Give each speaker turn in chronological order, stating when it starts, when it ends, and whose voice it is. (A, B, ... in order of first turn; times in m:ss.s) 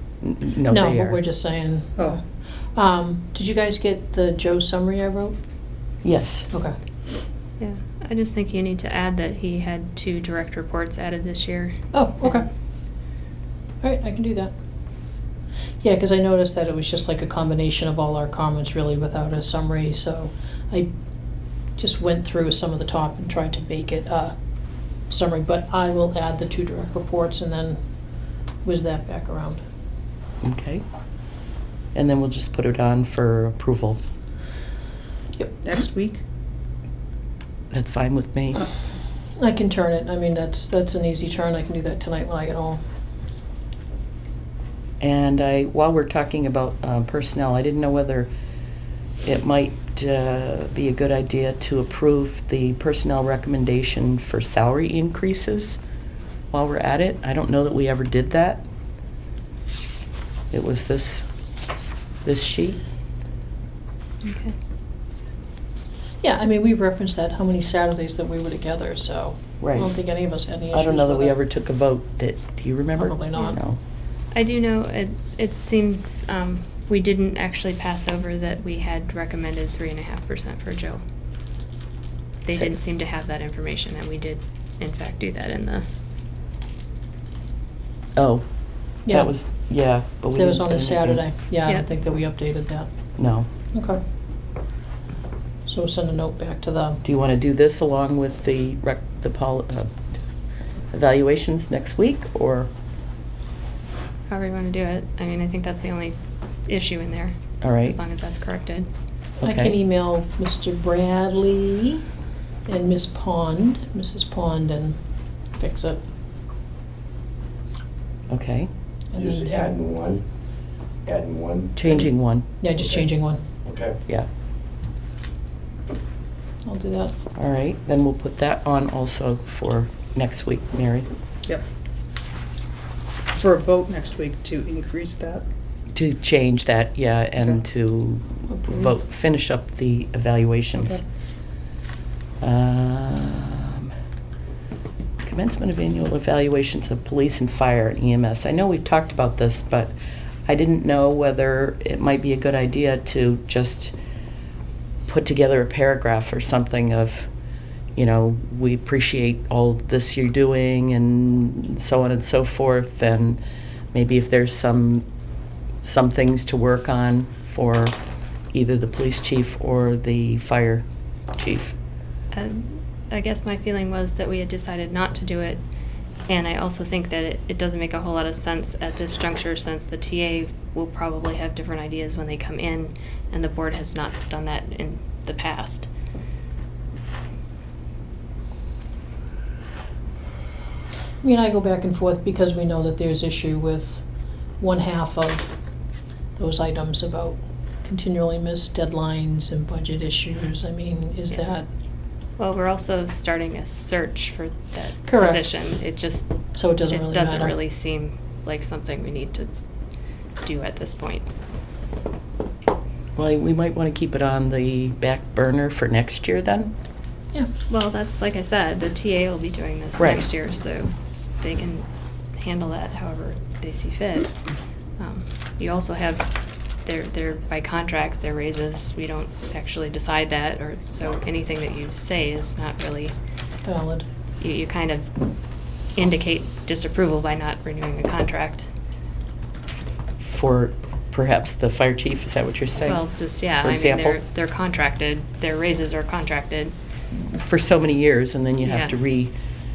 0:00.2-0:01.2 A
0:00.7-0:05.4 B
0:06.0-0:06.5 A
0:07.6-0:12.4 C
0:11.9-0:12.5 B
0:13.8-0:14.5 B
0:15.8-0:20.9 B
0:21.8-0:24.3 B
0:25.1-0:27.8 B
0:28.6-0:29.6 B
0:30.4-0:30.8 A
0:31.9-0:34.0 A
0:35.4-0:35.6 B
0:35.6-0:36.2 D
0:37.7-0:38.7 A
0:39.4-0:42.8 B
0:45.0-0:48.3 A
0:49.2-0:55.8 A
0:56.5-0:58.6 A
1:00.5-1:01.3 A
1:02.2-1:02.8 A
1:04.2-1:04.6 C
1:06.2-1:11.3 B
1:09.6-1:10.0 A
1:10.7-1:13.8 A
1:13.0-1:13.6 B
1:14.3-1:21.0 C
1:22.4-1:25.8 C
1:28.2-1:28.4 A
1:29.0-1:29.3 B
1:29.1-1:31.2 A
1:30.3-1:32.9 B
1:33.2-1:33.5 A
1:33.7-1:34.0 B
1:35.6-1:37.0 B
1:37.0-1:39.9 A
1:40.9-1:42.7 A
1:44.3-1:48.9 C
1:47.6-1:48.0 A
1:49.4-1:49.7 A
1:49.4-1:52.0 B
1:52.6-1:55.0 B
1:55.6-1:56.0 B
1:58.3-1:58.7 A
1:59.1-1:59.8 B
1:59.2-2:00.2 E
2:01.0-2:01.7 E
2:01.8-2:02.4 A
2:02.6-2:03.4 B
2:03.6-2:04.0 E
2:06.6-2:07.1 B
2:07.3-2:11.1 A
2:13.3-2:15.4 D
2:15.9-2:21.0 A
2:18.5-2:19.0 B
2:22.4-2:23.9 A
2:25.2-2:29.9 A
2:30.4-2:33.9 A
2:35.0-2:37.3 A
2:38.0-2:43.4 A
2:43.9-2:45.0 A
2:45.8-2:48.0 A
2:48.5-2:50.8 A
2:51.4-2:51.7 A
2:52.3-2:55.6 C
2:56.3-3:05.9 C
3:11.2-3:14.0 B
3:14.6-3:15.6 B
3:16.4-3:21.7 B
3:22.4-3:26.3 C
3:25.0-3:25.5 B
3:26.5-3:27.6 B
3:26.8-3:29.5 C
3:30.4-3:31.3 C
3:33.2-3:36.7 A
3:37.7-3:44.3 C
3:40.0-3:40.2 A
3:45.0-3:46.3 C
3:46.8-3:53.1 C
3:53.6-3:54.0 B
3:54.4-3:55.1 C
3:55.9-3:58.6 C
4:00.2-4:04.2 A
4:02.8-4:06.7 C
4:07.1-4:09.3 A
4:08.6-4:08.9 C